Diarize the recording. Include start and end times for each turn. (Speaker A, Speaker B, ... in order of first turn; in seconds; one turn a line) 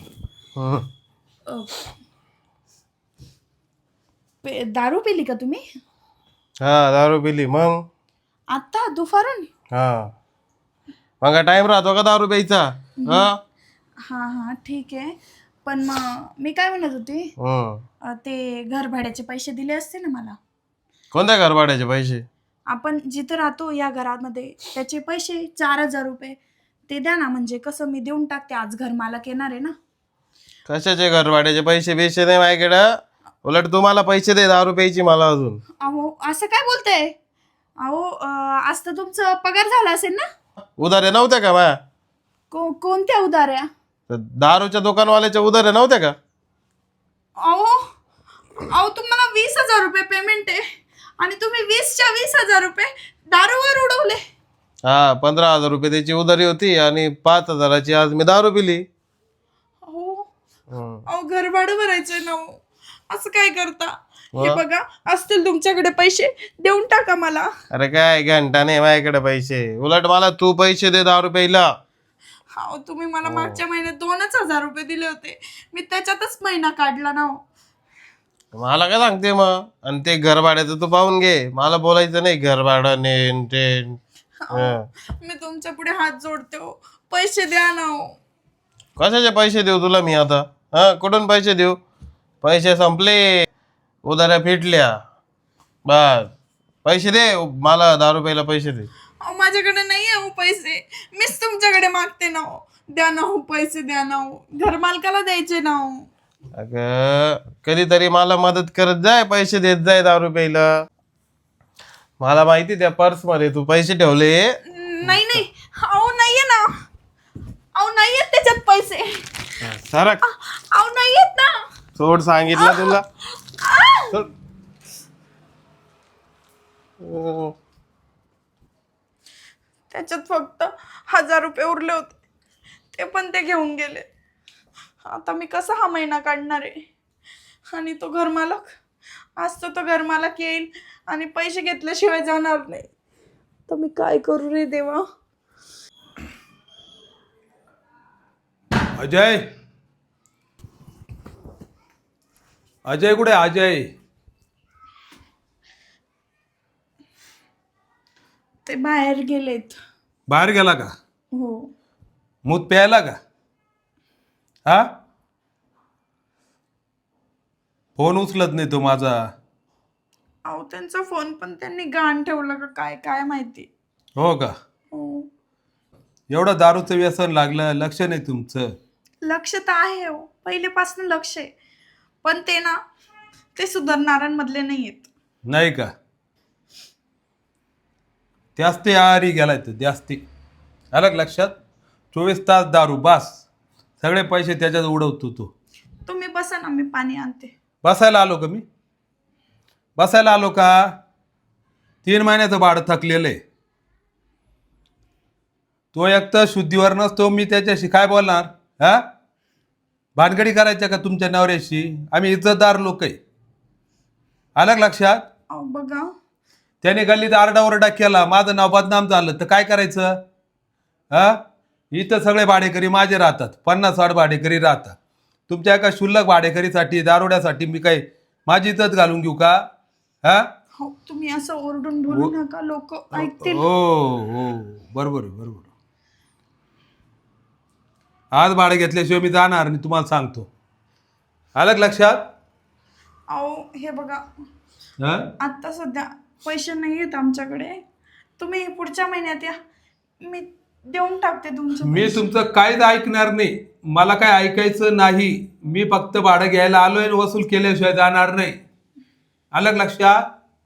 Speaker A: 0.6-0.8
Speaker B: 1.5-1.9
Speaker B: 4.4-5.6
Speaker A: 6.6-7.8
Speaker B: 8.5-9.5
Speaker A: 9.7-10.1
Speaker A: 11.2-13.4
Speaker B: 14.0-15.1
Speaker B: 15.7-17.3
Speaker A: 17.4-17.8
Speaker B: 18.1-20.4
Speaker A: 21.1-22.2
Speaker B: 22.7-29.7
Speaker A: 30.7-35.6
Speaker B: 35.8-37.1
Speaker B: 37.8-40.2
Speaker A: 40.8-41.8
Speaker B: 42.5-43.7
Speaker A: 44.1-46.1
Speaker B: 47.4-47.8
Speaker B: 48.7-50.6
Speaker B: 51.2-54.2
Speaker A: 54.9-58.8
Speaker B: 59.9-60.3
Speaker A: 60.7-61.0
Speaker B: 61.1-67.5
Speaker A: 64.3-64.6
Speaker A: 67.7-71.7
Speaker B: 72.6-77.4
Speaker A: 73.2-73.6
Speaker A: 78.5-84.0
Speaker B: 84.4-88.2
Speaker A: 84.5-84.8
Speaker A: 89.0-91.8
Speaker A: 92.4-93.5
Speaker A: 94.0-94.9
Speaker A: 95.9-96.3
Speaker A: 96.8-98.9
Speaker B: 99.2-106.1
Speaker A: 106.5-110.7
Speaker A: 112.2-114.5
Speaker B: 114.7-116.7
Speaker A: 115.0-115.4
Speaker B: 117.7-119.5
Speaker A: 119.6-120.2
Speaker B: 120.2-121.5
Speaker A: 122.0-123.0
Speaker B: 122.5-124.2
Speaker A: 127.0-127.5
Speaker B: 129.9-132.2
Speaker B: 132.9-134.1
Speaker B: 135.0-136.8
Speaker B: 137.7-138.7
Speaker B: 139.4-142.9
Speaker B: 143.7-145.0
Speaker C: 148.9-149.4
Speaker C: 152.8-153.8
Speaker B: 158.6-159.8
Speaker C: 160.3-160.9
Speaker B: 161.3-161.7
Speaker C: 162.4-163.2
Speaker C: 168.0-169.2
Speaker B: 170.4-173.7
Speaker C: 174.2-174.5
Speaker B: 174.9-175.3
Speaker C: 176.3-178.7
Speaker B: 179.2-181.5
Speaker B: 182.2-182.8
Speaker B: 183.5-185.1
Speaker C: 185.5-185.9
Speaker C: 188.6-190.2
Speaker C: 190.9-191.5
Speaker C: 192.1-193.4
Speaker C: 194.0-195.5
Speaker B: 196.1-197.5
Speaker C: 197.8-198.6
Speaker C: 200.0-200.9
Speaker C: 202.0-203.4
Speaker C: 205.9-209.0
Speaker C: 210.2-213.2
Speaker C: 214.6-215.2
Speaker B: 215.5-216.1
Speaker C: 216.8-220.2
Speaker C: 221.1-221.4
Speaker C: 221.9-224.9
Speaker C: 225.5-229.6
Speaker B: 230.8-233.6
Speaker C: 233.1-235.7
Speaker C: 238.3-240.5
Speaker C: 241.6-242.2
Speaker B: 243.3-244.2
Speaker C: 245.0-245.3
Speaker B: 245.4-247.8
Speaker B: 248.4-249.5
Speaker B: 250.2-252.3
Speaker C: 251.8-258.6
Speaker C: 259.5-260.2